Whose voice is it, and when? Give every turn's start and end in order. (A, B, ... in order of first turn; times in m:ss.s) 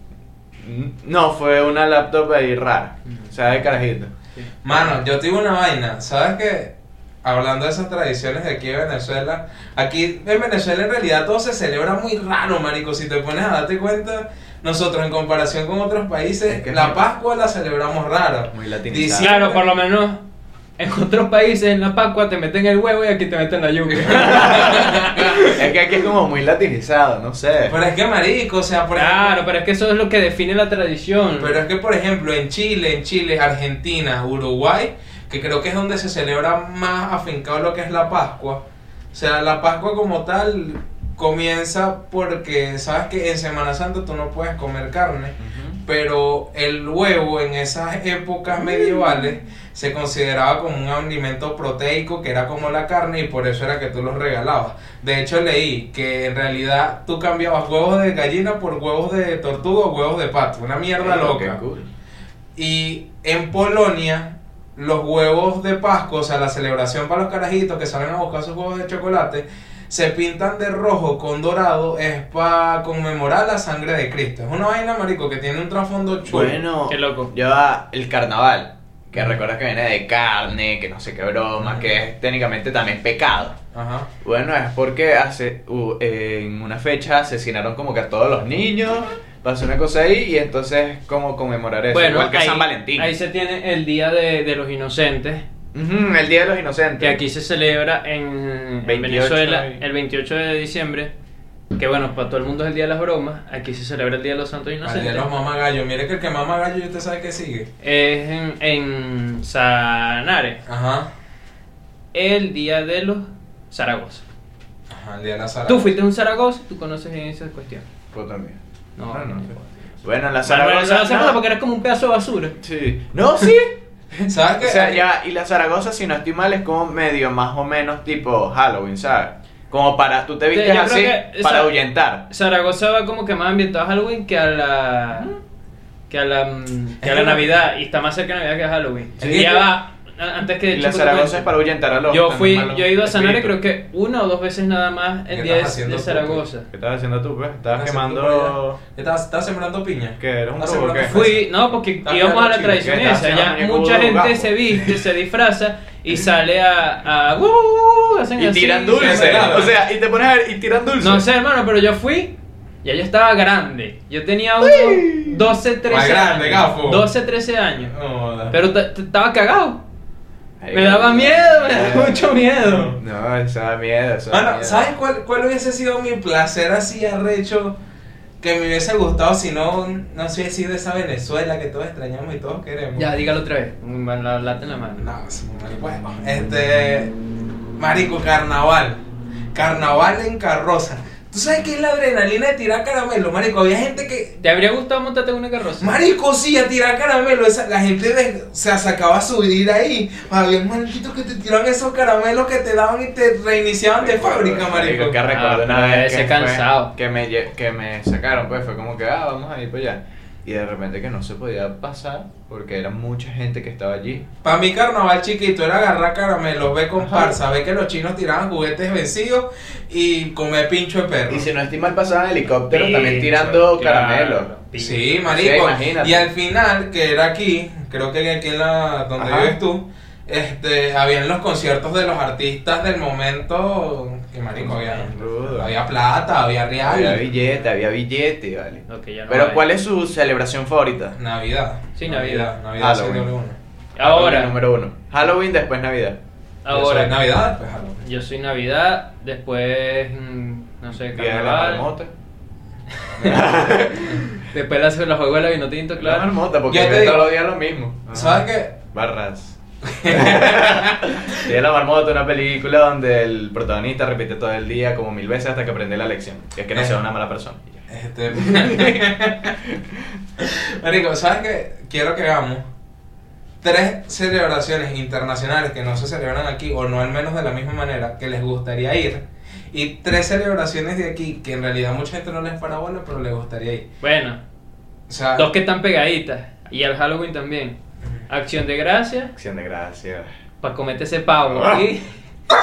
0:00.6-0:04.1 A
0:04.6-0:19.6 B
0:16.5-0:17.0 A
0:18.5-0:19.3 A
0:19.2-0:20.2 C
0:20.8-0:25.5 C
0:23.9-0:25.6 B
0:24.0-0:27.8 A
0:27.7-0:29.4 B
0:29.0-0:31.6 C
0:31.4-0:38.6 B
0:39.1-1:01.6 B
0:45.4-0:45.8 A
1:01.0-1:01.9 A
1:02.6-1:16.6 B
1:16.3-1:23.6 A
1:16.9-1:17.3 C
1:21.6-1:21.9 B
1:23.7-1:24.1 B
1:24.2-1:33.1 A
1:31.9-1:35.4 C
1:35.7-1:37.2 A
1:37.0-1:41.1 C
1:38.8-1:39.8 A
1:41.8-1:45.3 C
1:44.8-1:47.7 B
1:47.8-1:50.6 C
1:50.7-1:51.1 B
1:52.1-1:54.2 C
1:54.9-1:55.9 B
1:55.7-1:57.9 C
1:58.1-2:01.4 A
1:59.0-1:59.7 C
2:00.4-2:02.6 C
2:02.6-2:12.2 A
2:04.3-2:05.0 B
2:10.5-2:15.3 C
2:16.1-2:21.6 C
2:17.0-2:17.5 B
2:19.2-2:19.6 B
2:19.2-2:19.7 A
2:20.7-2:23.6 A
2:22.1-2:26.7 C
2:25.3-2:26.4 B
2:26.7-2:28.8 A
2:27.7-2:31.5 B
2:30.2-2:31.2 A
2:31.1-2:39.7 C
2:32.0-2:32.9 B
2:32.8-2:34.5 A
2:38.4-2:41.2 A
2:38.9-2:39.7 B
2:41.0-2:47.9 C
2:44.6-2:45.4 A
2:45.9-2:47.1 B
2:47.9-2:48.6 B
2:48.5-2:49.8 C
2:50.6-2:54.9 A
2:50.7-2:53.0 C
2:52.6-2:52.9 B
2:54.3-2:57.8 B
2:58.4-3:03.1 B
3:03.0-3:05.1 C
3:05.0-3:07.1 B
3:07.8-3:09.0 B
3:09.5-3:14.4 B
3:14.4-3:16.0 C
3:15.8-3:25.2 B
3:24.0-3:34.3 A
3:25.2-3:26.9 C
3:34.4-3:41.5 B
3:37.0-3:37.4 A
3:41.3-3:44.5 A
3:42.7-3:45.3 C
3:44.8-3:57.3 B
3:45.3-3:46.3 A
3:49.2-3:49.5 A
3:54.6-3:55.7 A
3:56.8-4:01.2 A
3:58.9-3:59.7 C
4:01.2-4:03.6 B
4:02.0-4:02.5 C
4:02.8-4:03.3 A
4:04.0-4:04.6 C
4:04.0-4:06.2 A
4:06.6-4:07.3 C
4:06.7-4:08.0 B
4:08.0-4:11.9 C
4:11.1-4:12.1 A
4:13.2-4:13.5 B
4:13.2-4:14.4 A
4:14.5-4:16.3 C
4:16.0-4:27.8 A
4:16.7-4:17.4 B
4:18.1-4:18.8 B
4:19.9-4:21.4 B
4:26.7-4:27.0 B
4:27.9-4:29.6 B
4:28.4-4:29.0 A
4:29.7-4:30.0 A
4:30.4-4:32.6 B
4:33.6-4:43.9 B
4:44.0-4:44.4 C
4:45.1-4:45.5 B
4:45.4-4:47.8 C
4:48.3-4:49.3 C
4:49.4-4:50.3 A
4:50.6-4:52.1 C
4:51.5-4:51.8 A